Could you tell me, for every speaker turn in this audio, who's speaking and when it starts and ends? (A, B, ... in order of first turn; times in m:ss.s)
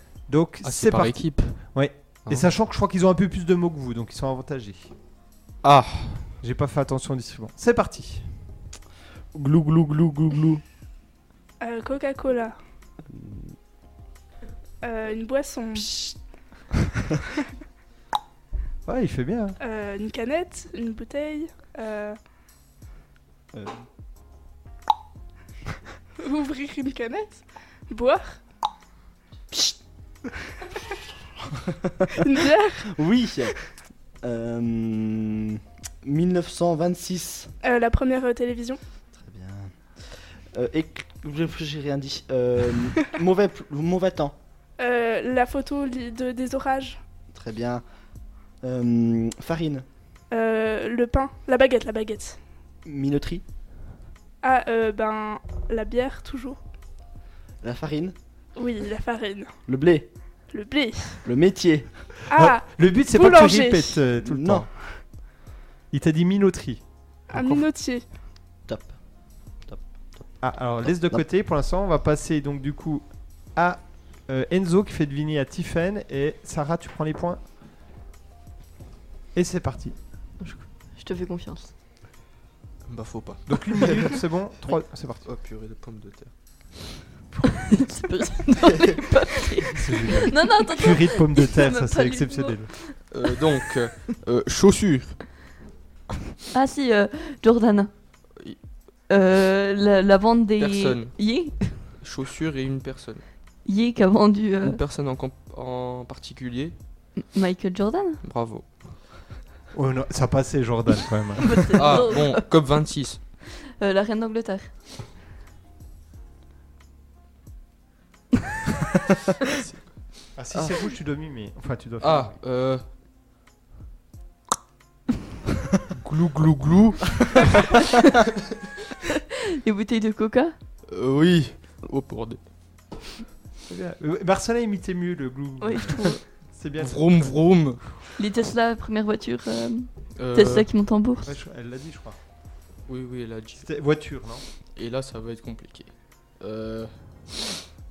0:00.3-0:04.9 A
0:00.6-0:01.6 B
0:05.6-0:06.3 B
0:06.4-0:08.3 A
0:09.3-0:10.6 C
0:11.6-0:12.6 D
0:13.1-0:13.5 C
0:14.8-0:15.9 D
0:15.8-0:16.1 C
0:18.8-0:19.6 A
0:19.6-0:22.2 D
0:23.5-0:23.8 C
0:26.2-0:28.4 D
0:31.6-0:32.1 C
0:32.2-0:33.0 D
0:32.9-0:33.6 C
0:34.2-0:37.5 C
0:37.6-0:38.8 D
0:39.1-0:44.4 C
0:44.8-0:47.0 D
0:47.3-0:47.8 C
0:48.6-0:49.8 C
0:50.3-0:52.4 D
0:52.8-0:53.4 C
0:54.4-0:56.6 D
0:57.6-0:58.1 C
0:58.6-0:59.5 D
0:59.7-1:00.1 C
1:00.5-1:01.2 D
1:01.2-1:02.1 C
1:02.3-1:04.0 D
1:02.3-1:04.7 A
1:04.2-1:04.7 C
1:05.9-1:07.6 A
1:07.3-1:08.0 D
1:08.7-1:09.0 C
1:09.6-1:10.2 C
1:10.4-1:17.4 A
1:19.3-1:19.9 A
1:20.4-1:21.7 E
1:22.8-1:24.2 B
1:23.5-1:25.2 A
1:25.2-1:26.3 B
1:27.4-1:33.4 E
1:29.8-1:32.7 A
1:33.0-1:35.4 B
1:36.5-1:37.9 E
1:39.1-1:41.9 E
1:40.6-1:43.2 B
1:43.6-1:44.8 E
1:44.6-1:46.7 B
1:47.2-1:48.2 E
1:48.2-1:49.0 B
1:49.7-1:52.0 A
1:51.4-1:52.7 E
1:51.7-1:53.2 B
1:53.6-1:54.7 E
1:59.4-2:00.9 B
2:00.3-2:02.4 A
2:02.0-2:02.9 B
2:06.0-2:07.7 B
2:09.6-2:10.5 E
2:10.9-2:12.4 B
2:13.7-2:17.5 A
2:15.6-2:16.2 E
2:16.8-2:17.9 B
2:18.2-2:21.3 E
2:20.2-2:20.7 B
2:21.2-2:22.2 A
2:22.9-2:23.6 B
2:23.6-2:24.4 A
2:24.7-2:27.3 B